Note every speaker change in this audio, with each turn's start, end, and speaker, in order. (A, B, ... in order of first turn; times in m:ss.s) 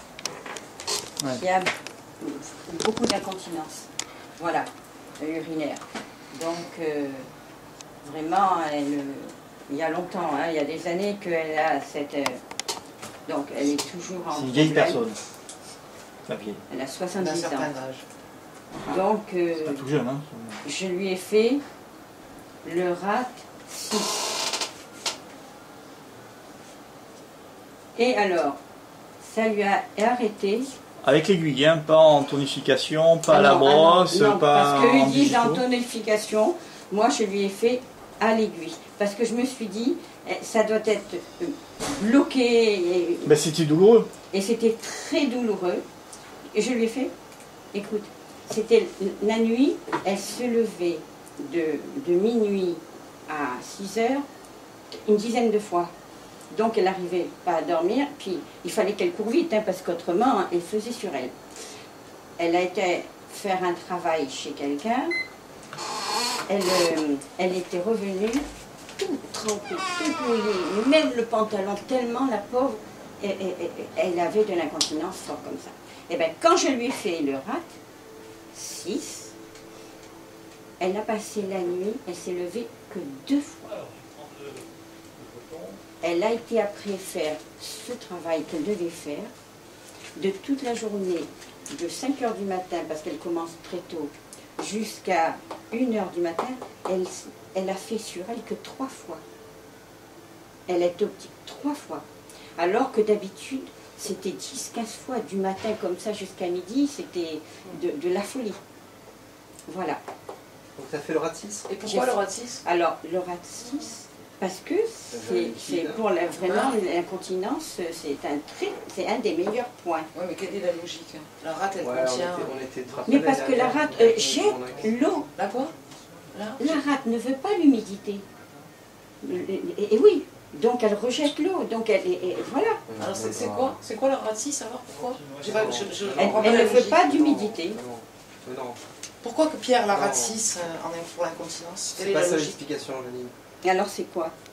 0:01.3-0:01.7 A
0:02.2-0:07.3 A
0:08.0-0:12.4 A
0:13.2-0:15.0 A
0:14.3-0:15.2 B
0:16.2-0:16.6 B
0:16.7-0:17.7 A
0:17.2-0:18.0 C
0:18.8-0:19.8 A
0:19.6-0:20.6 B
0:20.6-0:21.6 A
0:22.6-0:24.5 A
0:28.0-0:28.6 A
0:29.2-0:30.7 A
0:31.0-0:35.6 B
0:33.3-0:43.3 A
0:43.2-0:44.1 B
0:44.3-0:45.8 A
0:46.5-0:47.1 A
0:47.7-0:54.2 A
0:55.0-0:55.9 A
0:56.5-1:01.3 A
1:02.4-1:05.1 A
1:06.5-1:08.4 A
1:09.0-1:17.8 A
1:18.5-1:19.3 A
1:20.8-1:23.7 A
1:23.7-1:25.8 B
1:26.0-1:29.3 A
1:30.2-1:39.2 A
1:40.7-1:42.0 A
1:42.6-1:48.6 A
1:49.7-1:50.0 A
1:50.8-1:51.7 D
1:51.7-1:52.6 C
1:51.8-2:00.1 A
1:55.1-1:56.0 D
1:56.4-1:56.7 C
2:00.1-2:02.5 C
2:01.8-2:04.9 D
2:03.0-2:05.3 A
2:05.4-2:05.7 C
2:06.3-2:06.8 C
2:06.6-2:08.2 A
2:09.2-2:12.8 A
2:12.9-2:13.8 D
2:13.0-2:17.0 C
2:14.9-2:16.1 B
2:15.4-2:18.8 D
2:16.2-2:17.8 A
2:19.2-2:22.6 C
2:19.9-2:20.4 D
2:21.9-2:23.3 D
2:23.6-2:24.3 A